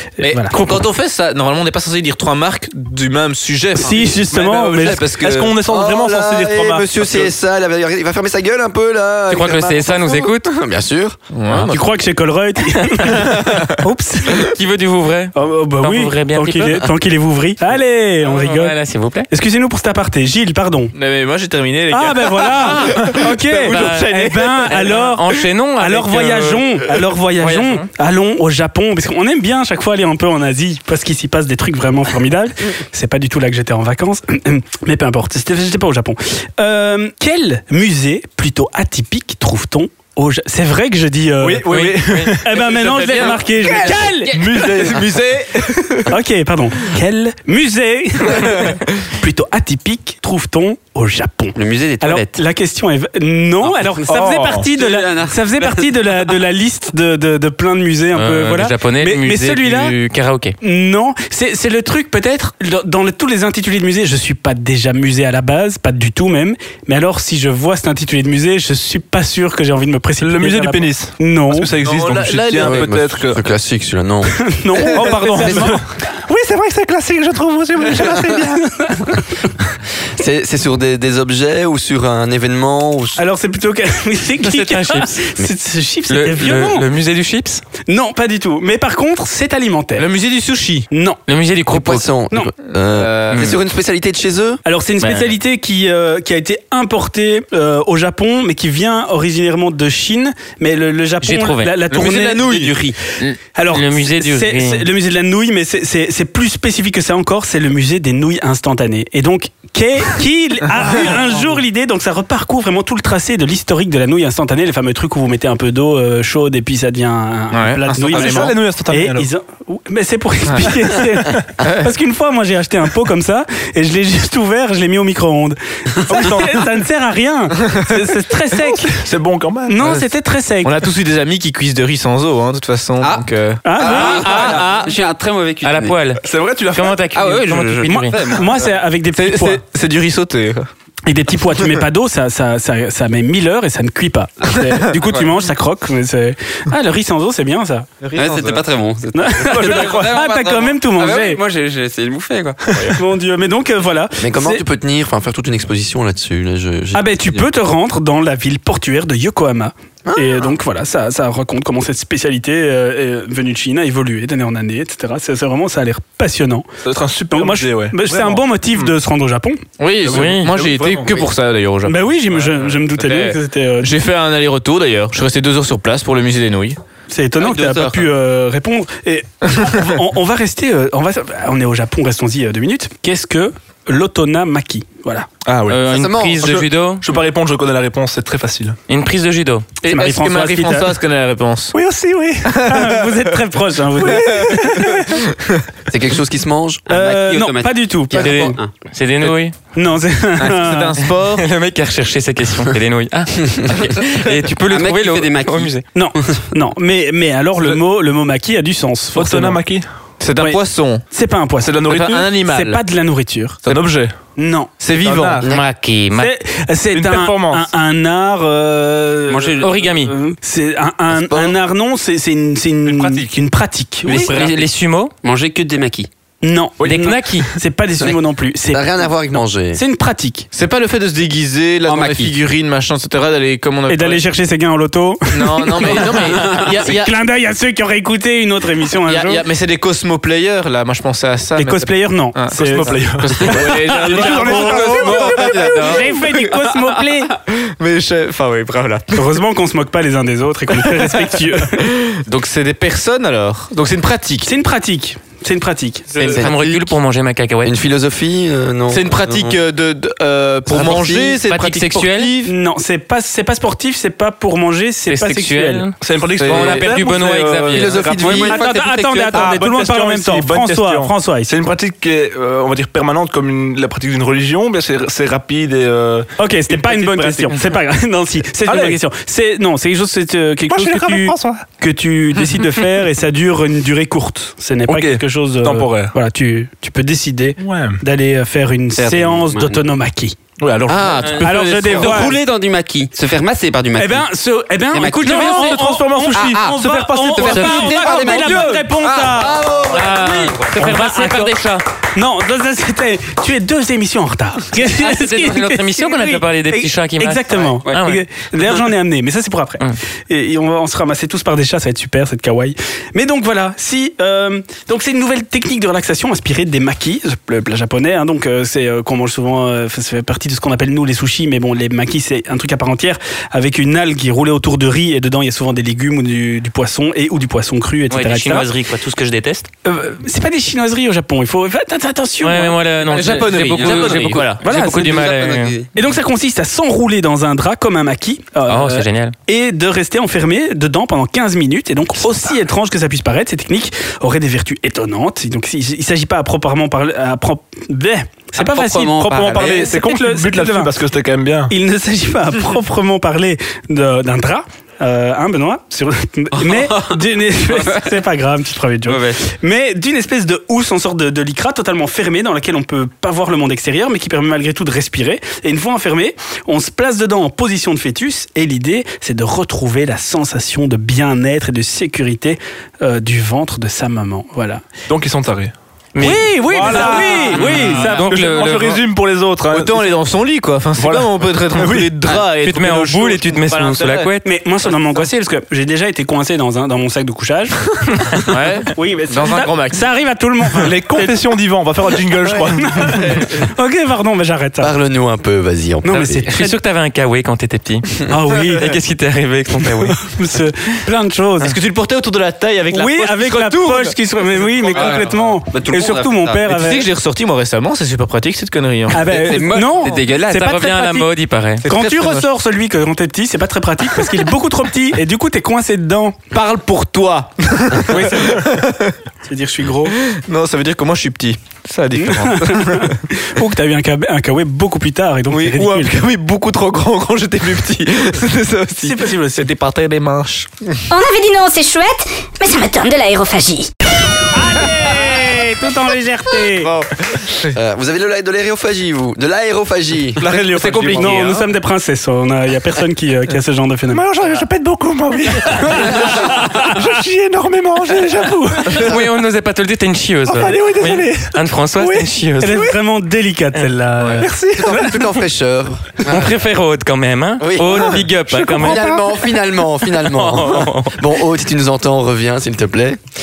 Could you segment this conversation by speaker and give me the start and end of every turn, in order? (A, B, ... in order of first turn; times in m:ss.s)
0:00.2-0:05.5 A
0:00.2-0:00.5 B
0:00.5-0:00.8 C
0:03.8-0:05.0 B
0:04.5-0:07.3 D
0:05.7-0:11.2 E
0:09.3-0:10.5 C
0:11.3-0:11.8 A
0:11.7-0:14.5 B
0:14.4-0:16.9 C
0:15.4-0:18.8 B
0:18.2-0:19.3 C
0:19.3-0:20.9 B
0:20.9-0:24.8 A
0:21.9-0:44.7 B
0:23.6-0:26.8 C
0:27.4-0:27.9 C
0:41.4-0:42.4 D
0:41.7-0:42.4 C
0:42.5-0:46.1 A
0:43.6-0:45.2 D
0:46.1-1:00.0 B
0:51.6-0:52.4 F
0:53.7-0:54.2 F
0:54.1-0:54.7 D
0:54.7-0:55.9 F
0:58.1-1:00.6 C
1:00.6-1:11.7 B
1:10.2-1:13.4 D
1:11.8-1:13.0 A
1:12.6-1:14.4 E
1:14.4-1:15.8 B
1:14.9-1:19.1 D
1:18.8-1:19.2 B
1:20.2-1:23.2 E
1:23.2-1:26.9 B
1:24.4-1:25.3 C
1:26.1-1:27.6 C
1:27.9-1:30.1 B
1:30.0-1:30.9 A
1:30.9-1:31.2 B
1:31.3-1:32.1 C
1:31.7-1:34.6 E
1:32.8-1:33.6 A
1:33.3-1:33.6 C
1:34.7-1:42.8 B
1:35.0-1:35.3 C
1:41.2-1:41.8 C
1:42.0-1:42.7 A
1:42.4-1:43.0 F
1:43.2-1:44.9 C
1:43.6-2:09.0 B
1:57.5-1:58.6 A
1:58.0-1:59.3 D
2:01.6-2:01.9 A
2:06.1-2:06.7 D
2:08.8-2:10.0 D
2:09.7-2:10.7 B
2:10.6-2:14.9 A
2:13.0-2:16.0 F
2:13.6-2:14.4 B
2:13.9-2:14.7 D
2:14.2-2:14.8 C
2:15.6-2:18.2 C
2:16.2-2:17.0 D
2:17.1-2:18.7 F
2:17.8-2:19.6 B
2:19.2-2:20.7 A
2:21.1-2:27.9 B
2:25.0-2:25.3 F
2:28.0-2:28.6 A
2:28.2-2:33.0 F
2:29.2-2:31.4 B
2:29.5-2:30.1 D
2:32.9-2:34.6 B
2:34.2-2:37.4 E
2:36.9-2:46.7 B
2:40.1-2:40.5 E
2:46.8-2:48.9 D
2:47.3-2:49.6 B
2:49.8-2:56.8 A
2:50.0-2:51.3 D
2:50.1-2:50.5 C
2:51.9-2:53.9 B
2:57.1-3:05.3 B
2:57.4-2:58.0 F
3:05.4-3:08.8 D
3:05.7-3:07.1 C
3:05.9-3:06.5 E
3:08.9-3:09.7 C
3:09.8-3:11.7 A
3:09.9-3:10.9 B
3:11.7-3:12.8 D
3:12.6-3:15.2 B
3:14.0-3:15.0 D
3:15.9-3:16.8 E
3:16.9-3:18.7 F
3:16.9-3:18.5 B
3:18.1-3:19.6 C
3:19.8-3:21.0 B
3:20.4-3:21.4 A
3:21.4-3:25.8 C
3:24.7-3:25.7 F
3:25.9-3:29.6 B
3:29.1-3:29.9 D
3:30.2-3:31.0 A
3:30.4-3:33.6 B
3:31.6-3:32.3 D
3:31.9-3:32.8 A
3:33.7-3:34.2 D
3:34.4-3:34.7 B
3:34.8-3:35.4 A
3:34.9-3:35.5 D
3:35.4-3:35.7 E
3:35.4-3:36.3 C
3:36.2-3:44.4 B
3:36.9-3:37.7 D
3:39.3-3:39.8 F
3:39.6-3:40.1 C
3:41.1-3:41.6 E
3:42.9-3:43.2 D
3:44.0-3:45.1 C
3:45.2-3:46.1 F
3:46.4-3:50.5 B
3:46.8-3:47.1 D
3:46.8-3:47.5 C
3:48.7-3:49.8 E
3:50.5-3:54.2 A
3:51.8-3:52.4 F
3:53.9-3:59.4 B
3:55.3-3:57.2 A
3:55.9-3:56.7 F
3:59.1-4:06.8 A
4:01.6-4:07.3 B
4:02.5-4:05.9 D
4:04.2-4:06.0 F
4:07.5-4:09.4 A
4:09.2-4:11.9 B
4:10.9-4:14.5 A
4:14.4-4:16.1 B
4:16.2-4:17.7 C
4:16.2-4:17.0 E
4:17.6-4:19.6 E
4:18.9-4:22.5 A
4:20.7-4:21.4 E
4:21.4-4:22.4 C
4:22.5-4:25.9 B
4:25.1-4:28.0 C
4:26.0-4:28.5 D
4:26.4-4:26.9 A
4:27.7-4:28.6 E
4:28.2-4:29.6 F
4:28.3-4:31.5 B
4:29.3-4:37.8 D
4:36.4-4:50.4 B
4:38.6-4:39.0 D
4:40.7-4:41.6 D
4:44.9-4:46.1 D
4:47.6-4:48.0 D
4:49.0-4:49.8 F
4:50.6-4:52.1 D
4:50.9-4:52.2 A
4:51.4-4:52.4 B
4:51.8-4:54.3 F
4:54.0-4:59.7 B
4:54.9-4:55.8 F
4:55.2-4:58.8 D
4:56.4-4:56.8 F
4:57.4-5:00.2 F
4:59.5-4:59.8 E
4:59.9-5:01.8 C
5:00.6-5:01.6 B
5:02.2-5:28.7 B
5:04.8-5:08.2 C
5:28.1-5:29.7 C
5:29.8-5:32.8 B
5:32.4-5:35.8 C
5:33.1-5:34.6 A
5:33.8-5:35.9 F
5:34.6-5:35.2 B
5:36.0-5:50.9 B
5:38.7-5:39.3 C
5:48.6-5:49.9 F
5:49.0-5:51.7 D
5:51.7-6:14.8 B
5:56.5-5:58.1 F
5:59.1-5:59.4 F
6:15.1-6:15.7 D
6:16.2-6:19.0 C
6:16.2-6:18.3 B
6:16.6-6:20.2 D
6:17.7-6:18.1 A
6:19.7-6:24.3 A
6:21.0-6:22.2 D
6:22.5-6:24.5 C
6:24.4-6:31.4 B
6:28.5-6:28.9 C
6:28.5-6:30.0 A
6:30.8-6:33.4 D
6:32.5-6:34.9 B
6:33.1-6:33.5 A
6:34.8-6:36.5 E
6:36.0-6:36.7 B
6:36.4-6:40.3 C
6:38.3-6:39.0 B
6:40.0-6:41.7 B
6:41.6-6:45.6 A
6:42.9-6:47.1 B
6:44.9-6:46.6 F
6:46.7-6:50.1 A
6:49.1-6:51.3 B
6:49.2-6:50.8 F
6:50.5-6:51.9 C
6:51.8-6:52.4 A
6:51.9-6:56.4 B
6:56.5-6:59.2 A
6:58.1-6:58.6 B
6:59.4-7:00.2 B
7:00.1-7:03.2 A
7:02.2-7:06.1 B
7:05.5-7:10.7 A
7:09.0-7:09.7 B
7:11.1-7:13.9 G
7:14.5-7:16.9 B
7:16.8-7:17.8 A
7:17.7-7:20.4 E
7:20.4-7:21.7 A
7:20.4-7:24.3 B
7:20.5-7:21.5 D
7:24.1-7:29.2 D
7:25.6-7:27.0 B
7:28.4-7:28.9 B
7:28.9-7:32.9 C
7:30.4-7:32.9 D
7:32.6-7:34.5 B
7:34.4-7:35.4 D
7:34.8-7:36.5 E
7:36.2-7:39.1 C
7:37.6-7:43.2 E
7:38.5-7:39.4 D
7:40.1-7:41.2 C